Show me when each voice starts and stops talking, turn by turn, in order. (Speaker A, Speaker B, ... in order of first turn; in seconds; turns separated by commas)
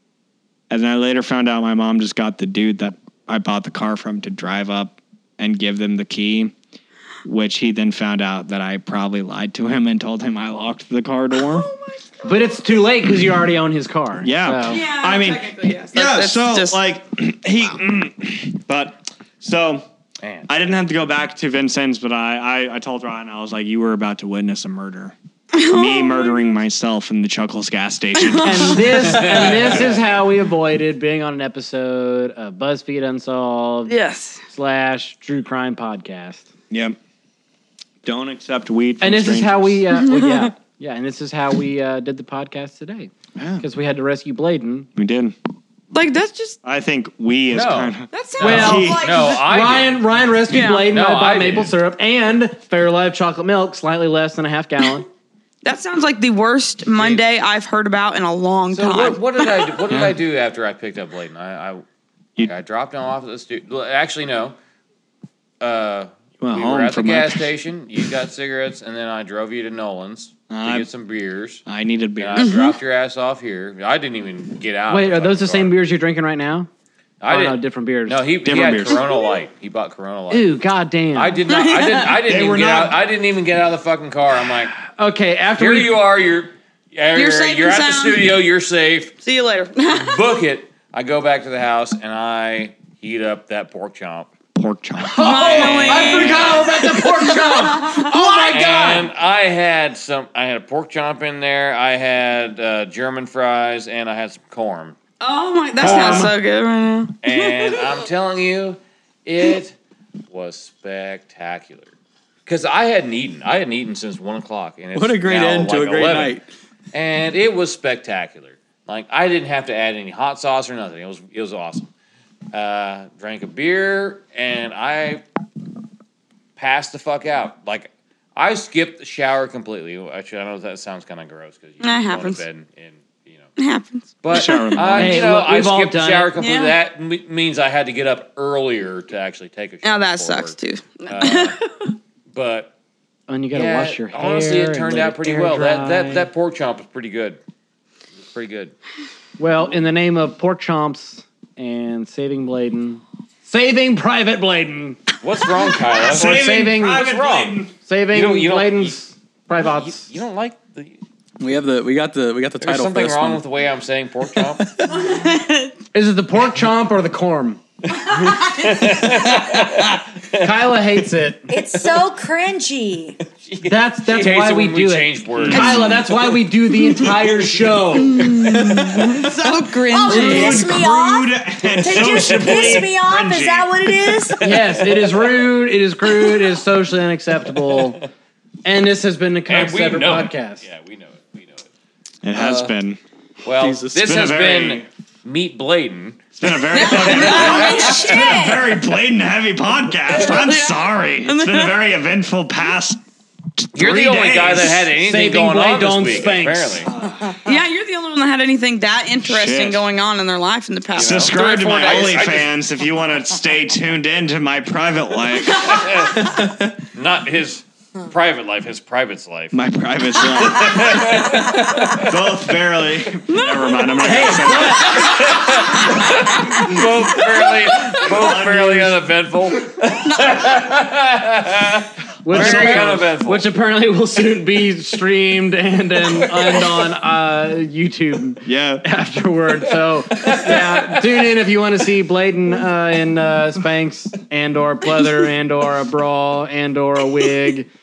Speaker A: 0.7-6.5, Speaker A: 7.2-11.7, Speaker B: 11.3-12.7, Speaker C: 12.2-14.8, Speaker A: 14.2-19.8, Speaker B: 14.6-16.8, Speaker D: 20.2-20.5, Speaker A: 20.5-29.8, Speaker B: 25.5-26.5, Speaker B: 28.2-28.7, Speaker C: 28.4-34.0, Speaker D: 29.0-30.0, Speaker B: 33.9-34.4, Speaker C: 34.5-36.5, Speaker A: 36.7-37.0, Speaker A: 38.0-39.8, Speaker C: 39.0-44.9, Speaker B: 40.0-40.5, Speaker A: 43.4-43.6, Speaker A: 45.0-45.3, Speaker B: 45.9-46.6, Speaker A: 46.6-49.0, Speaker D: 47.5-50.0, Speaker B: 48.1-49.0, Speaker C: 48.4-55.1, Speaker E: 48.9-49.4, Speaker B: 50.5-50.9, Speaker D: 50.9-51.7, Speaker B: 55.6-59.8, Speaker D: 56.9-57.2, Speaker D: 58.7-61.8, Speaker A: 59.9-60.2, Speaker D: 62.4-64.5, Speaker D: 65.6-71.6, Speaker A: 66.4-67.5, Speaker A: 70.5-70.9, Speaker A: 71.7-72.5, Speaker D: 72.2-75.7, Speaker B: 72.4-72.8, Speaker C: 74.9-76.7, Speaker D: 77.2-80.6, Speaker C: 77.3-78.2, Speaker A: 78.4-79.1, Speaker C: 80.3-81.4, Speaker D: 81.1-84.7, Speaker B: 81.5-82.1, Speaker A: 82.1-82.9, Speaker C: 84.8-85.9, Speaker D: 85.6-89.1, Speaker B: 87.1-88.3, Speaker B: 89.2-90.2, Speaker D: 89.9-94.3, Speaker A: 94.5-95.4, Speaker C: 95.0-99.1, Speaker B: 95.1-98.5, Speaker D: 95.2-96.7, Speaker D: 98.4-105.0, Speaker B: 105.2-107.9, Speaker D: 105.8-106.3, Speaker A: 105.8-106.3, Speaker D: 107.2-109.8, Speaker D: 110.3-111.9, Speaker D: 112.5-116.4, Speaker F: 114.9-116.4, Speaker D: 116.9-121.9, Speaker D: 122.5-125.2, Speaker D: 126.5-133.5, Speaker B: 131.8-132.4, Speaker B: 133.6-134.8, Speaker D: 134.2-140.5, Speaker A: 134.3-135.3, Speaker C: 134.9-136.3, Speaker B: 136.4-136.7, Speaker B: 139.8-141.9, Speaker D: 141.1-141.6, Speaker D: 142.3-142.7, Speaker C: 143.3-146.3, Speaker D: 143.5-147.4, Speaker D: 148.2-148.7, Speaker C: 149.4-155.0, Speaker D: 155.2-158.9, Speaker A: 156.0-157.7, Speaker C: 156.1-157.0, Speaker C: 157.8-160.1, Speaker D: 159.6-161.0, Speaker F: 161.4-163.4, Speaker D: 162.6-164.7, Speaker F: 164.6-164.9, Speaker B: 164.9-165.7, Speaker C: 165.9-167.6, Speaker D: 168.1-170.5, Speaker F: 169.2-169.6, Speaker C: 170.4-171.5, Speaker E: 171.5-173.2, Speaker D: 173.4-176.2, Speaker C: 173.6-179.2, Speaker A: 175.4-176.3, Speaker D: 177.0-178.0, Speaker A: 177.0-177.5, Speaker B: 178.0-180.6, Speaker A: 178.2-179.3, Speaker E: 179.9-184.4, Speaker A: 180.0-184.3, Speaker D: 181.8-182.9, Speaker D: 184.3-185.4, Speaker C: 184.4-188.1, Speaker D: 187.7-188.0, Speaker C: 188.6-190.6, Speaker D: 189.5-191.7, Speaker A: 192.2-193.0, Speaker F: 192.3-192.7, Speaker D: 193.4-196.2, Speaker F: 193.6-193.9, Speaker A: 193.6-194.8, Speaker A: 196.3-203.0, Speaker B: 196.8-197.6, Speaker D: 196.9-198.2, Speaker E: 196.9-198.8, Speaker B: 200.1-201.8, Speaker A: 203.6-204.8, Speaker D: 203.7-206.9, Speaker C: 204.9-207.1, Speaker A: 207.0-207.4, Speaker B: 207.4-212.2, Speaker A: 209.2-209.8, Speaker D: 210.9-212.5, Speaker A: 211.0-215.9, Speaker D: 215.6-219.6, Speaker F: 216.2-216.7, Speaker A: 219.5-225.4, Speaker D: 220.2-222.2, Speaker B: 223.3-223.7, Speaker C: 224.0-225.3, Speaker D: 224.8-233.5, Speaker A: 226.5-229.0, Speaker B: 230.0-230.4, Speaker C: 232.2-247.7, Speaker A: 232.3-233.0, Speaker D: 236.2-236.7, Speaker A: 238.4-238.8, Speaker D: 240.2-241.0